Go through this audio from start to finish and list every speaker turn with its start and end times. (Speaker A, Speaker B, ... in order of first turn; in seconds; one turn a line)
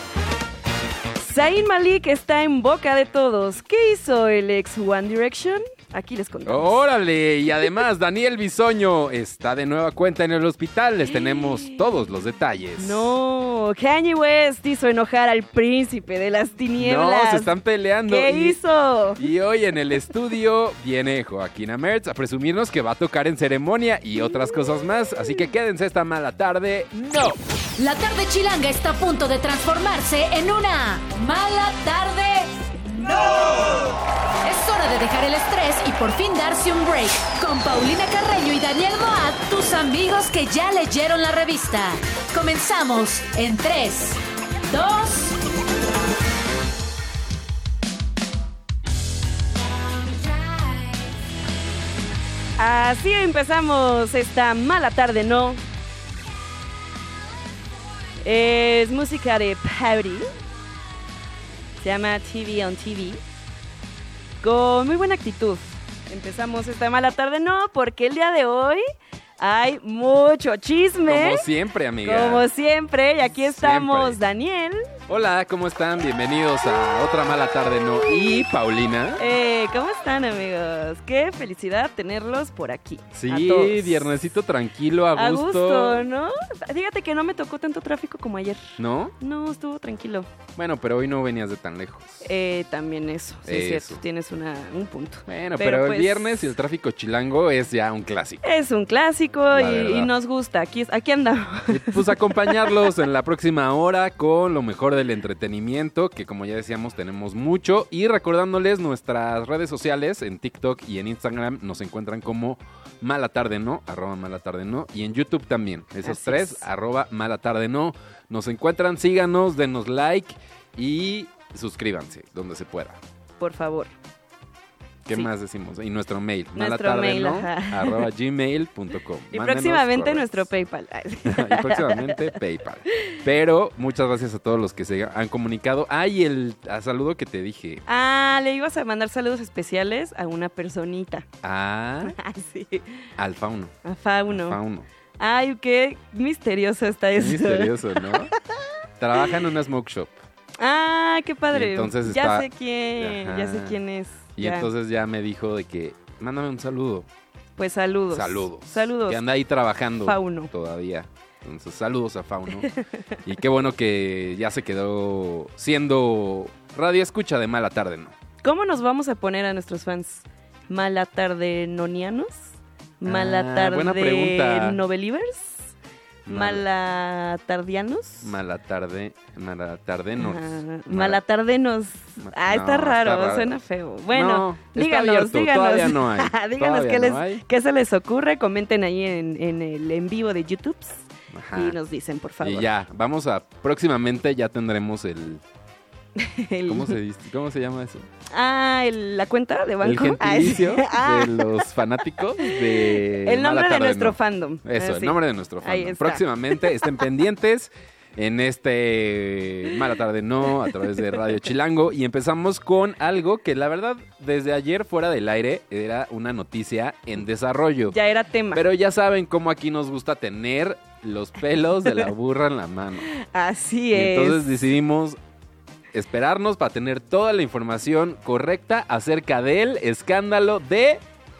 Speaker A: 1.2-6.8
Speaker B: 6.5-13.1
Speaker A: 11.1-11.7
Speaker A: 12.8-17.5
Speaker B: 16.8-18.6
Speaker A: 18.1-19.2
Speaker B: 19.2-27.4
Speaker C: 27.8-33.9
Speaker C: 34.4-45.4
Speaker C: 49.9-50.8
Speaker A: 52.6-55.6
Speaker A: 58.2-60.3
Speaker A: 61.8-63.2
Speaker A: 64.4-68.8
Speaker A: 69.4-71.4
Speaker B: 71.1-72.5
Speaker A: 72.0-74.8
Speaker B: 73.3-74.2
Speaker B: 75.1-79.2
Speaker A: 79.2-84.1
Speaker B: 83.1-86.1
Speaker A: 85.1-88.6
Speaker B: 88.8-89.1
Speaker A: 89.2-90.3
Speaker B: 90.5-92.2
Speaker A: 92.2-96.5
Speaker B: 93.5-94.0
Speaker B: 95.3-98.4
Speaker A: 98.4-102.8
Speaker B: 99.5-100.1
Speaker B: 101.7-123.0
Speaker A: 116.0-116.6
Speaker A: 123.4-123.9
Speaker B: 125.0-130.5
Speaker A: 126.5-128.0
Speaker A: 129.3-132.3
Speaker B: 131.2-137.8
Speaker A: 137.9-141.2
Speaker B: 141.4-142.1
Speaker A: 142.1-142.9
Speaker B: 143.2-144.8
Speaker A: 143.8-144.6
Speaker A: 145.2-148.2
Speaker B: 147.2-148.3
Speaker B: 149.0-150.2
Speaker A: 150.6-154.7
Speaker B: 151.5-153.8
Speaker B: 154.3-157.1
Speaker A: 157.6-159.2
Speaker B: 158.1-168.1
Speaker A: 160.0-160.5
Speaker A: 168.4-172.4
Speaker A: 173.0-175.7
Speaker B: 173.0-174.8
Speaker B: 176.2-176.6
Speaker A: 176.3-178.4
Speaker B: 178.2-181.2
Speaker A: 180.2-191.0
Speaker B: 182.2-183.6
Speaker B: 184.1-187.4
Speaker B: 191.3-191.8
Speaker A: 191.5-192.7
Speaker B: 192.4-195.4
Speaker A: 196.2-196.9
Speaker B: 196.7-198.1
Speaker A: 198.3-201.6
Speaker B: 199.8-218.0
Speaker A: 202.4-206.8
Speaker A: 217.9-218.6
Speaker B: 218.5-223.1
Speaker A: 223.1-224.5
Speaker B: 223.9-225.2
Speaker B: 225.9-231.0